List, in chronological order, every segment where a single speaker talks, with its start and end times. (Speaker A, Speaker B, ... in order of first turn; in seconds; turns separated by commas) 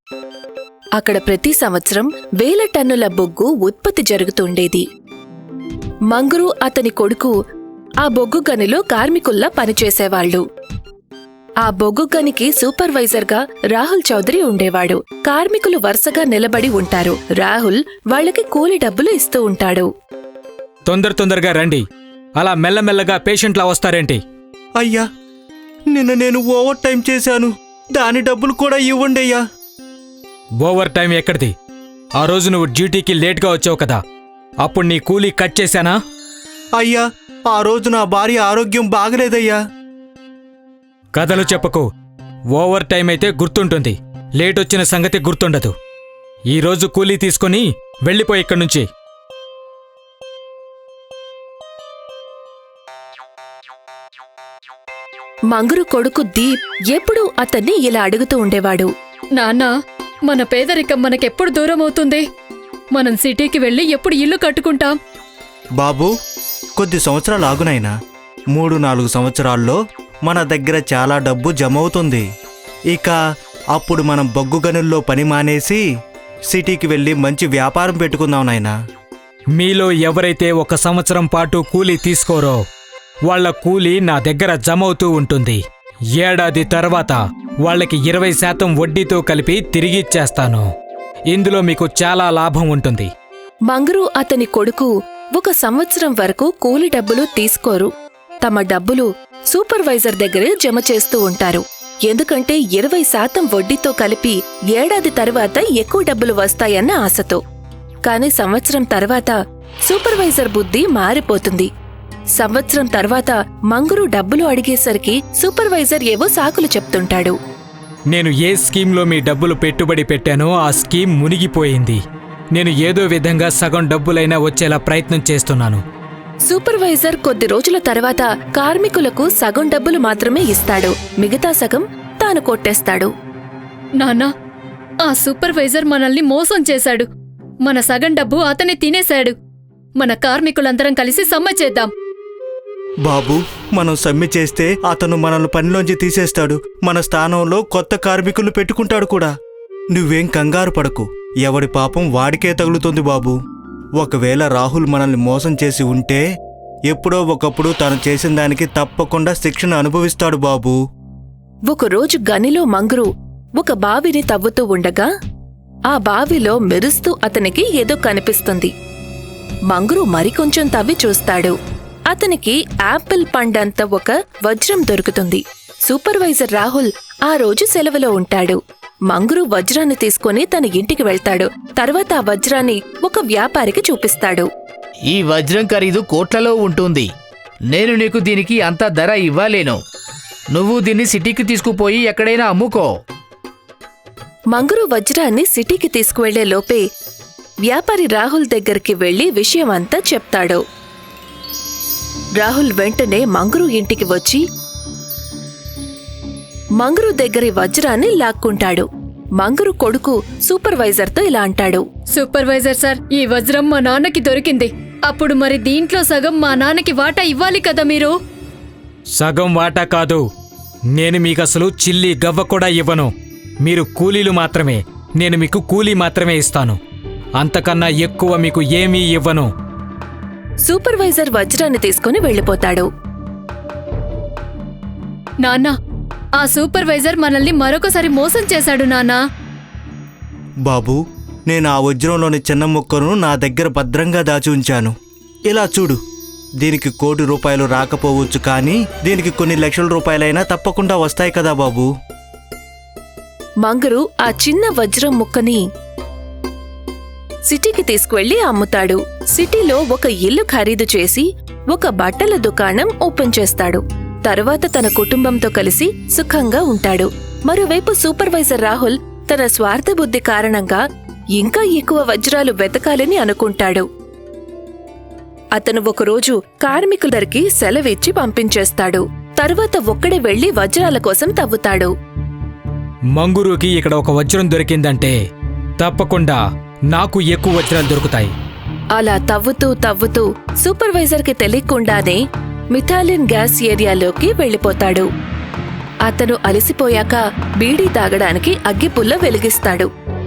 Speaker A: 1.0-4.8, Speaker A: 6.1-7.3, Speaker A: 8.0-10.4, Speaker A: 11.6-19.9, Speaker B: 20.9-21.8, Speaker B: 22.4-24.2, Speaker C: 24.8-25.1, Speaker C: 25.9-29.4, Speaker B: 30.6-31.5, Speaker B: 32.2-34.0, Speaker B: 34.6-36.0, Speaker C: 36.8-39.6, Speaker B: 41.2-41.9, Speaker B: 42.6-45.8, Speaker B: 46.5-48.9, Speaker A: 55.5-58.9, Speaker D: 59.4-59.7, Speaker D: 60.3-62.2, Speaker D: 63.0-64.9, Speaker C: 65.8-66.1, Speaker C: 66.8-67.9, Speaker C: 68.6-72.2, Speaker C: 73.8-75.8, Speaker C: 76.5-78.7, Speaker B: 79.6-82.6, Speaker B: 83.3-85.6, Speaker B: 86.2-90.7, Speaker B: 91.3-93.1, Speaker A: 93.7-97.9, Speaker A: 98.4-107.4, Speaker A: 108.1-109.4, Speaker A: 109.9-111.7, Speaker A: 112.4-117.4, Speaker B: 118.1-122.0, Speaker B: 122.6-125.8, Speaker A: 126.5-133.1, Speaker D: 134.0-134.3, Speaker D: 135.0-137.1, Speaker D: 137.7-139.3, Speaker D: 140.0-141.9, Speaker C: 143.1-149.3, Speaker C: 149.9-153.4, Speaker C: 154.0-156.2, Speaker C: 156.9-160.8, Speaker A: 161.7-165.1, Speaker A: 165.9-168.7, Speaker A: 169.7-171.6, Speaker A: 172.1-178.6, Speaker A: 179.1-184.5, Speaker E: 185.1-187.1, Speaker E: 187.7-189.8, Speaker E: 190.5-192.9, Speaker A: 194.5-196.8, Speaker A: 197.7-200.6, Speaker A: 202.4-204.4, Speaker A: 206.8-208.9, Speaker A: 209.4-211.8, Speaker D: 212.1-218.1, Speaker B: 219.2-220.2, Speaker B: 221.0-223.1, Speaker B: 223.6-226.8, Speaker B: 227.4-229.5, Speaker A: 230.7-232.9, Speaker D: 235.4-235.7, Speaker D: 236.4-239.2, Speaker C: 240.7-244.9, Speaker C: 245.5-246.0, Speaker C: 246.6-251.9, Speaker A: 253.6-255.6, Speaker A: 257.5-270.8, Speaker A: 271.4-273.9, Speaker A: 275.6-281.9, Speaker B: 283.2-285.2, Speaker B: 285.8-286.4, Speaker B: 286.9-288.3, Speaker A: 289.0-292.2, Speaker A: 292.7-295.1, Speaker A: 296.1-299.9